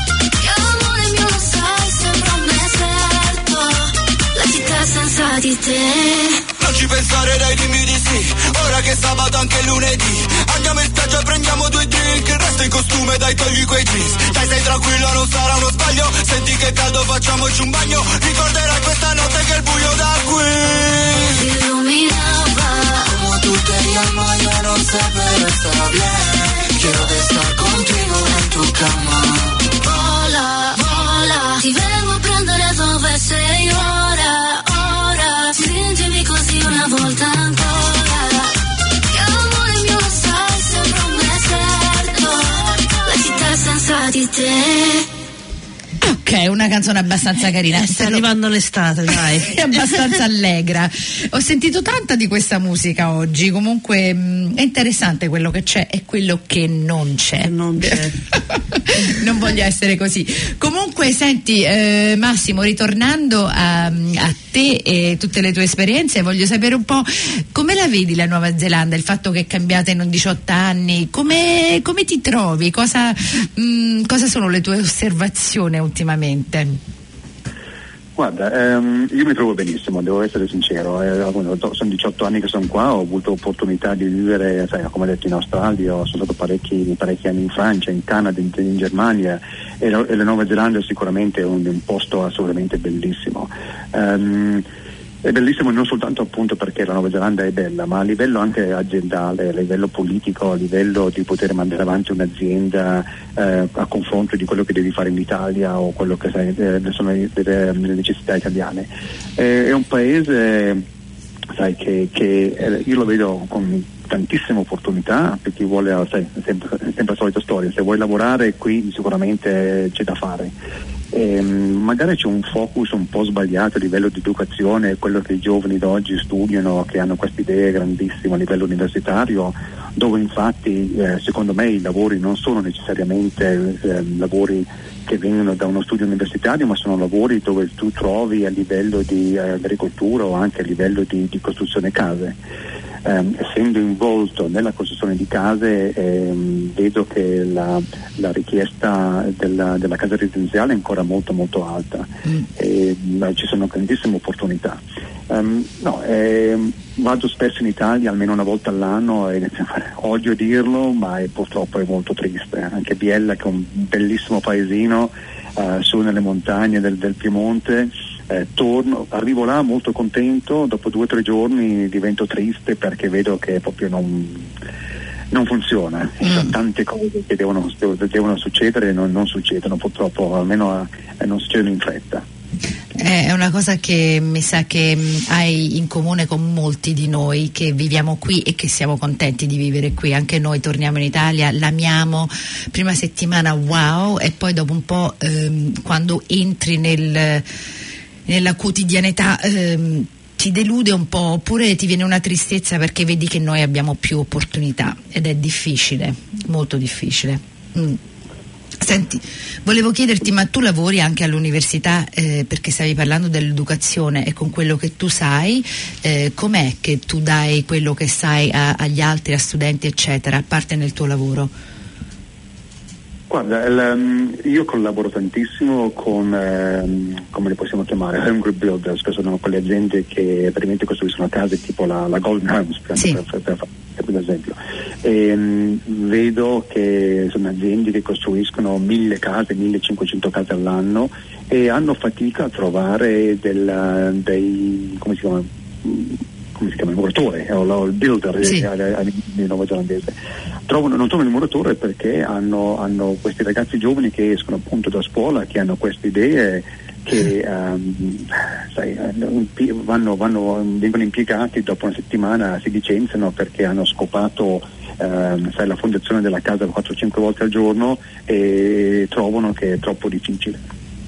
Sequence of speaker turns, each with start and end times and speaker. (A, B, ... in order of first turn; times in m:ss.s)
0:00.4-0:06.4 A
0:06.6-0:21.3 B
0:21.2-0:23.1 A
0:23.0-0:29.6 C
0:29.8-0:38.5 A
0:39.1-0:45.1 A
0:46.0-0:48.2 D
0:47.7-0:49.9 E
0:49.1-1:16.8 D
0:57.4-0:58.2 E
1:18.2-1:34.6 F
1:35.2-1:50.8 F
1:51.6-2:00.5 F
2:01.1-2:22.4 F
2:23.0-2:54.5 F
2:55.3-3:02.2 F
2:56.2-2:56.5 D
3:03.0-3:17.4 D
3:18.3-3:28.0 D
3:28.8-3:41.5 D
3:43.3-4:10.1 F
4:10.7-4:30.6 F